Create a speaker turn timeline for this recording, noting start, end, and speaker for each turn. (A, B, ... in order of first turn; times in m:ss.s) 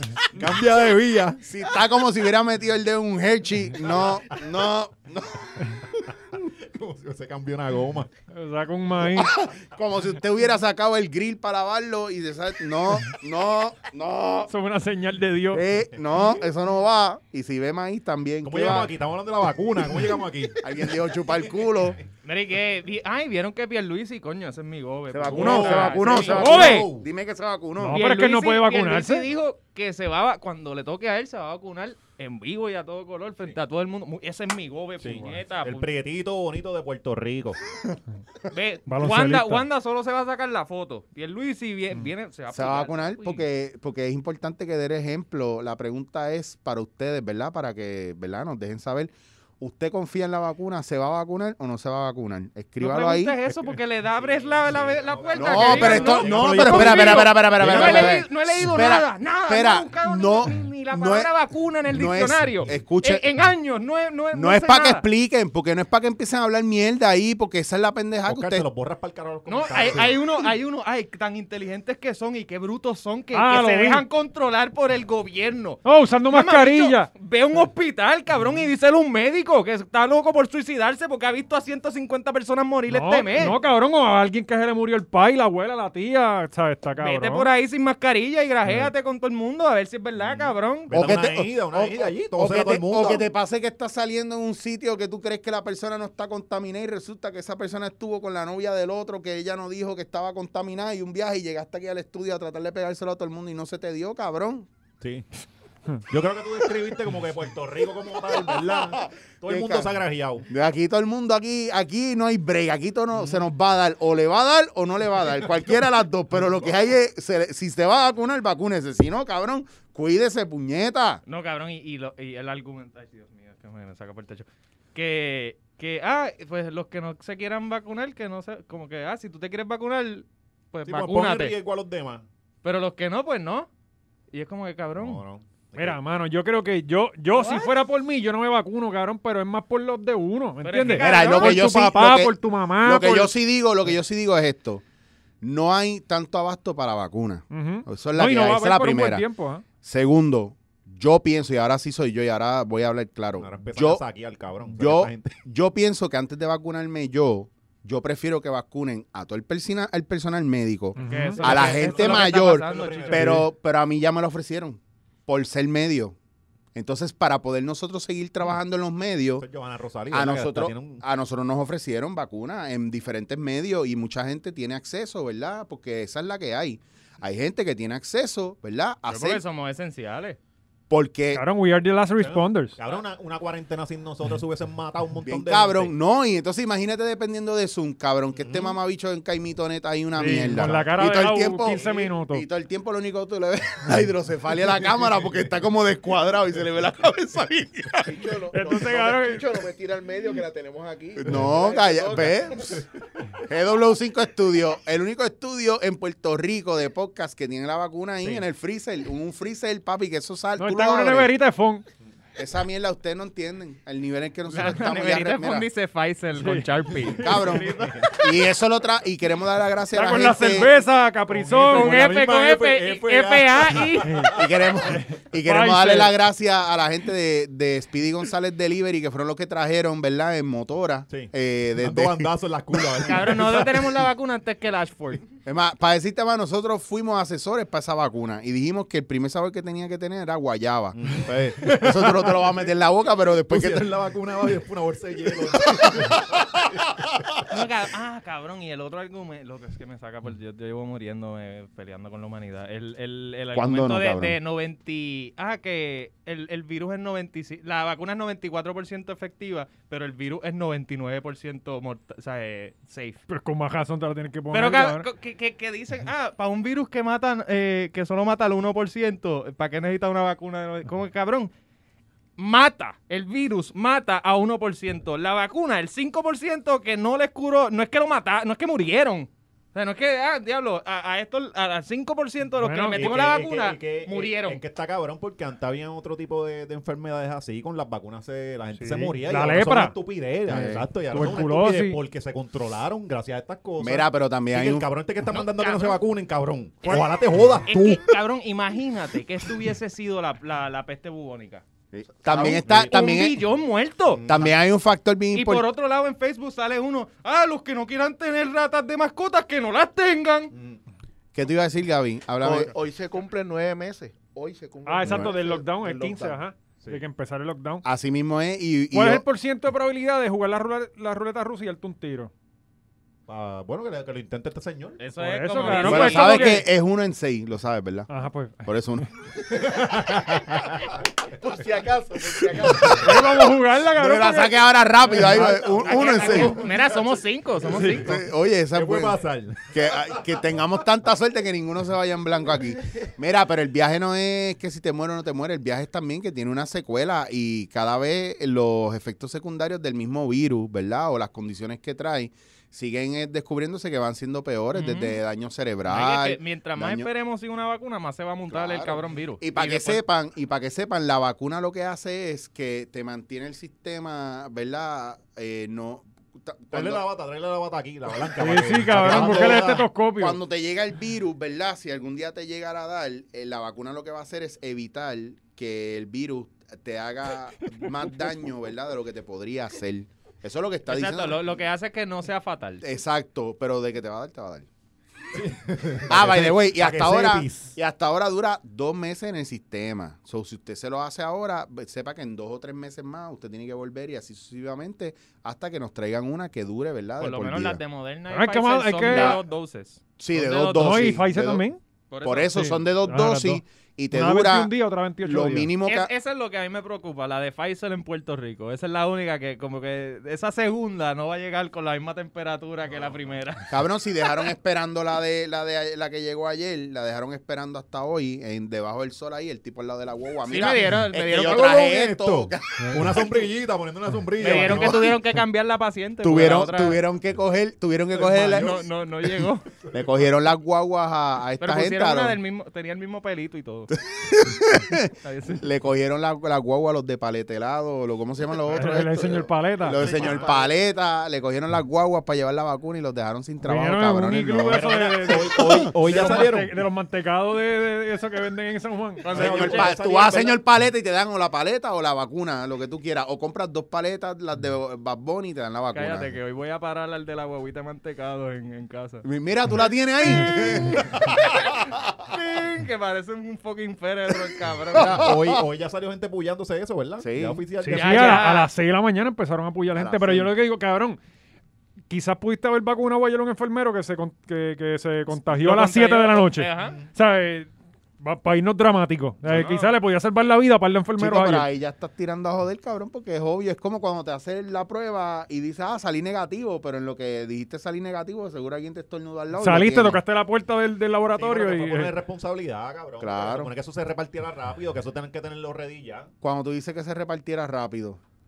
0:00.3-0:01.4 A
0:01.4-0:06.1 B
0:03.8-0:04.5 A
0:06.4-0:08.1 A
0:08.3-0:09.4 C
0:09.0-0:14.5 B
0:14.5-0:15.6 C
0:15.5-0:18.9 B
0:18.4-0:20.9 A
0:20.6-0:22.0 B
0:22.2-0:26.9 D
0:25.1-0:28.0 B
0:25.3-0:27.1 A
0:26.3-0:26.8 C
0:27.8-0:29.3 C
0:27.9-0:35.9 D
0:35.0-0:37.6 A
0:38.5-0:43.4 D
0:38.9-0:39.6 C
0:42.5-0:53.4 B
0:52.8-1:05.0 D
0:54.1-0:58.3 A
0:55.3-1:01.3 B
1:01.9-1:03.3 B
1:04.3-1:08.7 B
1:08.3-1:10.2 A
1:09.5-1:23.6 D
1:13.3-1:14.0 C
1:15.8-1:17.1 C
1:22.9-1:27.5 C
1:27.0-1:30.9 D
1:30.2-1:33.2 A
1:30.9-1:44.7 B
1:45.0-1:45.3 A
1:46.1-1:50.5 A
1:48.3-1:49.9 B
1:50.5-2:01.2 B
1:53.1-1:53.5 A
2:01.3-2:11.6 D
2:10.9-2:12.2 A
2:12.6-2:13.7 D
2:14.3-2:15.2 D
2:15.0-2:16.0 A
2:15.8-2:23.3 C
2:17.3-2:17.7 D
2:20.6-2:21.6 D
2:21.0-2:24.8 B
2:25.4-2:29.2 B
2:27.5-2:29.6 C
2:29.8-2:34.0 B
2:33.4-2:35.4 A
2:34.8-2:46.2 B
2:41.0-2:41.4 C
2:41.0-2:43.4 D
2:41.4-2:43.5 A
2:46.8-2:49.5 B
2:49.4-2:51.0 A
2:50.1-2:59.4 B
2:59.1-3:00.4 D
3:00.9-3:01.4 B
3:01.3-3:02.8 C
3:02.2-3:05.9 A
3:05.2-3:18.2 B
3:08.4-3:08.8 A
3:10.2-3:12.4 C
3:18.0-3:22.8 E
3:18.5-3:19.5 C
3:21.2-3:22.8 B
3:23.4-3:31.3 B
3:30.6-3:31.8 C
3:32.4-3:35.7 B
3:34.5-3:38.2 D
3:36.4-3:37.3 C
3:37.1-3:38.1 A
3:37.2-3:40.7 B
3:39.9-3:42.2 C
3:41.3-3:44.5 A
3:41.7-3:44.3 D
3:44.0-3:44.3 C
3:44.3-3:52.9 B
3:44.8-3:46.2 C
3:51.1-3:54.0 A
3:53.0-3:55.2 D
3:55.4-4:03.9 B
4:01.0-4:02.7 A
4:03.5-4:06.4 A
4:05.6-4:07.3 B
4:07.5-4:23.2 D
4:13.5-4:14.4 B
4:23.3-4:25.1 C
4:24.5-4:31.5 D
4:32.4-4:44.6 D
4:42.6-4:43.2 C
4:42.9-4:58.2 A
4:48.8-4:50.0 C
4:50.5-4:50.9 B
4:51.1-4:52.0 C
4:53.8-4:54.9 B
4:55.3-4:56.0 D
4:57.7-5:01.6 D
5:01.9-5:03.4 B
5:02.3-5:04.2 D
5:02.3-5:03.0 A
5:04.1-5:04.5 A
5:04.3-5:05.7 B
5:05.3-5:10.5 D
5:10.5-5:10.8 A
5:11.3-5:12.7 B
5:12.4-5:16.4 E
5:14.9-5:17.8 C
5:15.0-5:15.4 B
5:17.8-5:19.2 B
5:18.9-5:22.3 C
5:23.3-5:25.0 A
5:25.0-5:26.6 D
5:25.2-5:26.7 C
5:25.6-5:26.1 A
5:25.7-5:28.1 B
5:28.1-5:28.7 C
5:28.6-5:29.1 B
5:29.5-5:30.8 A
5:31.2-5:33.4 E
5:32.7-5:33.0 B
5:32.9-5:35.5 C
5:33.9-5:36.6 B
5:35.1-5:40.3 A
5:35.8-5:38.2 D
5:37.8-5:57.1 B
5:54.7-5:55.2 D
5:55.9-6:00.0 D
5:58.5-6:07.0 B
6:06.7-6:09.9 A
6:08.4-6:10.4 C
6:08.9-6:21.4 B
6:20.9-6:22.8 D
6:22.8-6:24.7 B
6:25.3-6:27.7 A
6:26.1-6:37.8 B
6:37.2-6:41.2 D
6:38.3-6:39.4 C
6:39.1-6:39.4 B
6:40.2-6:41.6 B
6:40.8-6:41.8 C
6:42.1-6:42.8 D
6:42.2-6:46.1 B
6:42.6-6:45.7 C
6:45.9-6:53.7 D
6:52.9-6:53.2 A
6:53.7-7:03.5 B
7:00.5-7:01.9 D
7:01.4-7:05.1 A
7:04.4-7:07.0 D
7:04.5-7:05.1 B
7:06.2-7:08.8 B
7:08.2-7:08.9 A
7:08.3-7:09.7 D
7:09.9-7:12.4 B
7:11.6-7:14.0 D
7:14.1-7:25.9 B
7:15.2-7:15.7 D
7:18.7-7:20.1 C
7:20.0-7:20.6 A
7:23.6-7:29.3 C
7:24.6-7:26.7 A
7:29.2-7:30.0 D
7:29.3-7:30.6 A
7:29.3-7:36.4 B
7:35.9-7:39.2 D
7:39.2-7:42.3 B
7:42.2-7:45.3 D
7:44.9-7:45.6 B
7:45.0-7:48.5 A
7:47.2-7:47.6 B
7:47.8-7:51.2 C
7:47.9-7:48.7 D
7:50.0-7:50.5 B
7:52.1-7:57.7 C
7:55.5-7:57.0 D
7:56.8-7:57.1 A
7:58.2-8:01.7 C
7:59.5-7:59.9 D
8:01.2-8:10.2 B
8:09.6-8:12.1 C
8:11.3-8:16.3 A
8:13.2-8:13.7 B
8:16.4-8:18.2 B